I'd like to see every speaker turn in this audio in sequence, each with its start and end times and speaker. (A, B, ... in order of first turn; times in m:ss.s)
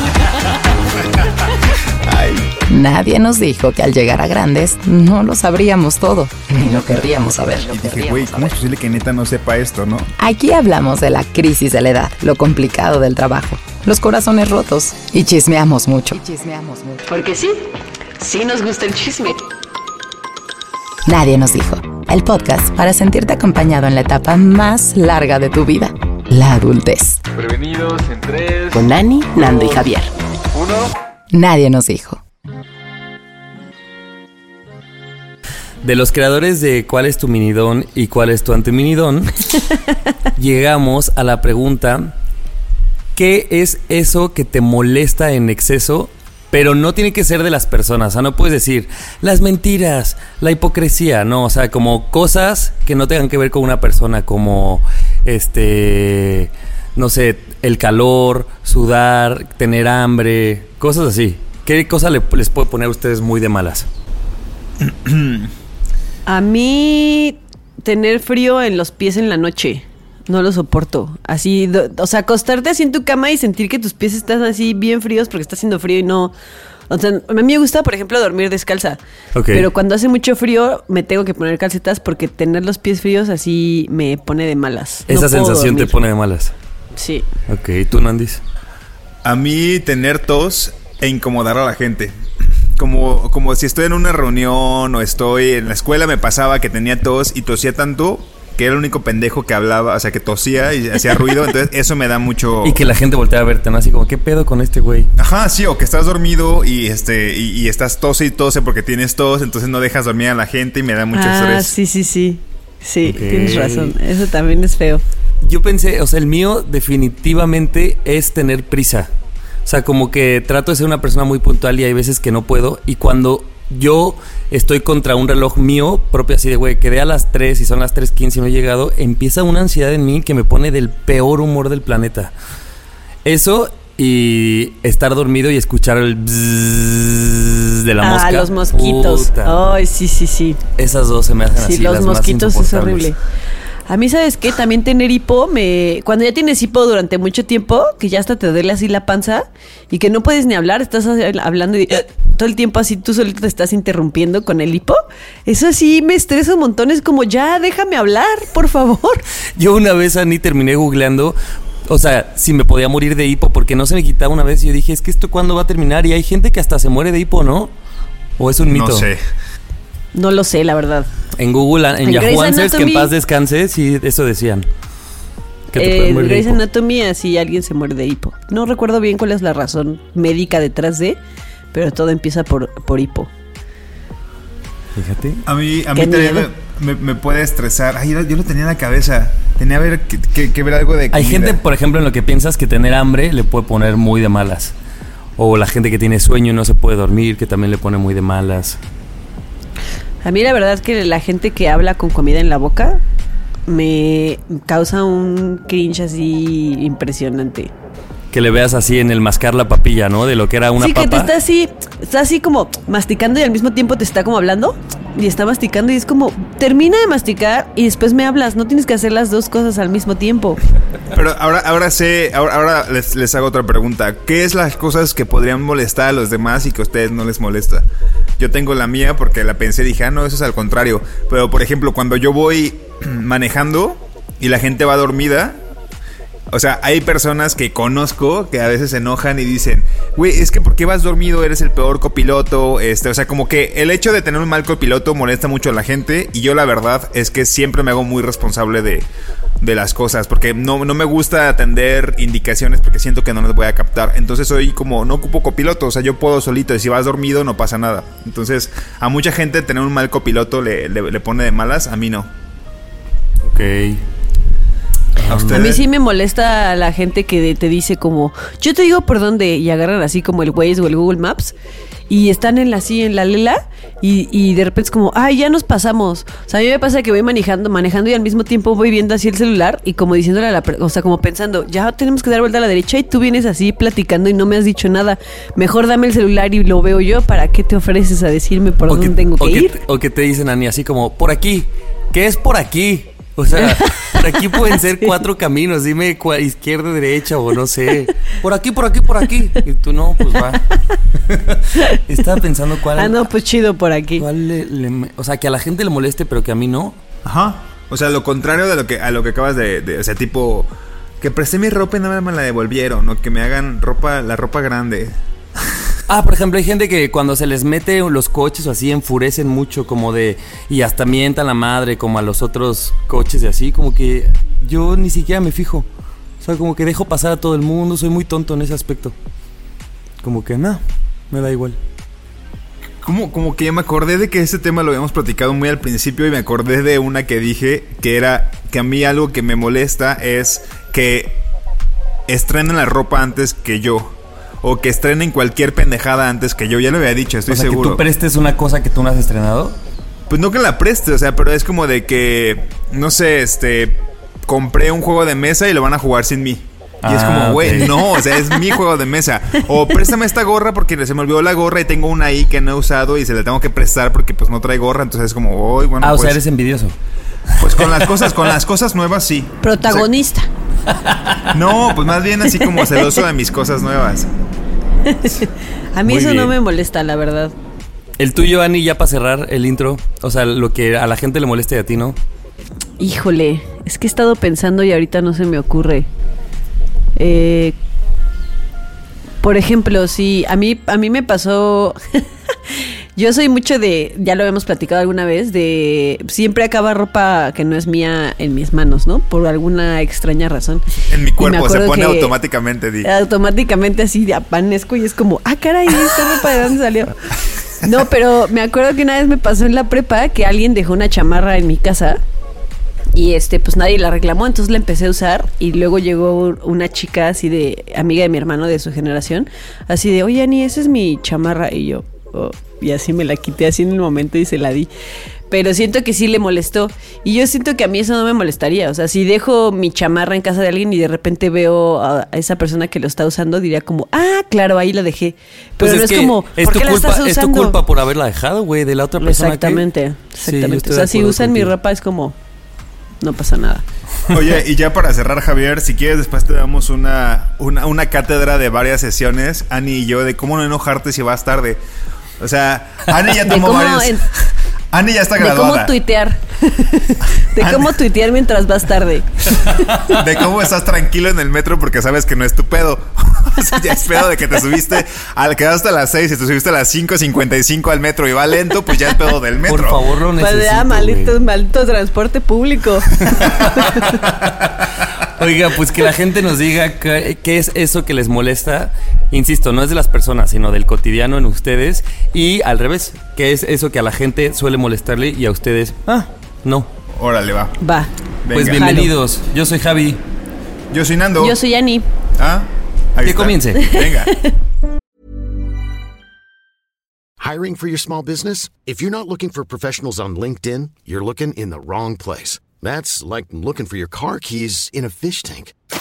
0:02.0-0:02.5 A
0:02.7-0:08.5 B
0:07.7-0:10.1 A
0:10.2-0:17.0 B
0:17.1-0:17.6 C
0:18.2-0:19.4 C
0:21.0-0:27.2 B
0:27.3-0:28.8 D
0:28.7-0:30.1 B
0:29.3-0:29.9 D
0:30.5-0:30.9 D
0:31.3-0:32.2 B
0:35.8-0:39.6 E
0:40.4-0:42.1 E
0:43.1-1:03.9 E
1:04.8-1:05.5 A
1:06.2-1:16.3 C
1:16.9-1:19.0 C
1:19.3-1:19.7 E
1:19.5-1:26.0 C
1:25.1-1:26.5 E
1:27.0-1:27.3 C
1:27.5-1:28.4 E
1:29.2-1:32.1 A
1:32.8-1:42.9 A
1:42.6-1:45.1 E
1:45.2-1:51.7 A
1:51.1-1:55.0 C
1:53.0-1:54.0 E
1:55.4-1:59.1 E
1:59.6-2:12.3 E
2:13.2-2:19.6 E
2:18.0-2:20.6 C
2:20.8-2:23.1 E
2:21.6-2:23.2 C
2:23.9-2:39.2 C
2:39.6-2:41.4 E
2:41.9-2:47.7 E
2:48.4-2:49.1 E
2:48.7-2:49.2 A
2:50.1-2:51.1 C
2:51.4-2:54.7 E
2:52.0-2:53.1 C
2:55.7-2:56.6 E
2:55.8-3:01.2 C
3:01.7-3:03.3 C
3:05.0-3:05.4 E
3:05.4-3:11.6 A
3:05.9-3:06.5 C
3:11.1-3:14.7 E
3:15.4-3:18.8 E
3:20.2-3:23.0 C
3:23.7-3:27.7 C
3:28.3-3:31.3 E
3:30.8-3:40.6 C
3:41.1-3:47.8 A
3:48.4-3:55.6 A
3:56.5-4:09.1 A
4:09.6-4:22.3 A
4:23.4-4:24.0 E
4:25.2-4:25.7 E
4:25.3-4:25.8 A
4:25.5-4:31.5 C
4:32.1-4:49.8 C
4:48.9-5:00.6 E
4:53.8-4:54.2 C
5:01.3-5:03.2 E
5:03.0-5:04.2 C
5:04.2-5:07.0 E
5:07.2-5:10.7 A
5:11.2-5:15.2 A
5:16.1-5:25.9 E
5:26.4-5:29.1 E
5:30.2-5:31.8 E
5:33.0-5:41.4 A
5:42.3-5:48.0 A
5:47.5-5:49.8 E
5:50.3-6:06.4 A
5:57.0-5:58.0 E
6:06.0-6:06.9 E
6:07.6-6:10.1 A
6:07.6-6:08.5 E
6:09.6-6:10.5 C
6:10.9-6:11.4 E
6:11.5-6:14.3 A
6:15.0-6:17.5 C
6:16.1-6:16.5 E
6:18.2-6:22.2 E
6:23.0-6:26.1 C
6:27.2-6:27.8 C
6:29.4-6:40.8 C
6:41.1-6:43.1 A
6:41.4-6:42.3 C
6:43.0-6:47.1 C
6:47.8-6:52.2 C
6:53.1-7:04.9 C
7:05.5-7:17.8 C
7:15.8-7:19.8 E
7:19.2-7:22.3 C
7:20.4-7:21.7 E
7:23.2-7:23.8 C
7:24.3-7:31.8 A
7:32.4-7:34.2 A
7:33.4-7:34.2 C
7:34.9-7:35.9 A
7:35.4-7:39.8 C
7:37.4-7:37.9 A
7:40.0-7:50.0 A
7:49.6-7:51.3 E
7:50.4-7:54.2 C
7:53.2-7:54.5 A
7:53.6-7:54.2 E
7:55.2-8:06.9 E
8:07.1-8:07.8 A
8:07.8-8:09.1 C
8:08.5-8:09.0 A
8:08.5-8:10.2 E
8:10.9-8:11.6 A
8:11.4-8:12.0 C
8:12.4-8:14.3 A
8:13.2-8:13.9 E
8:14.2-8:14.5 C
8:17.4-8:25.7 F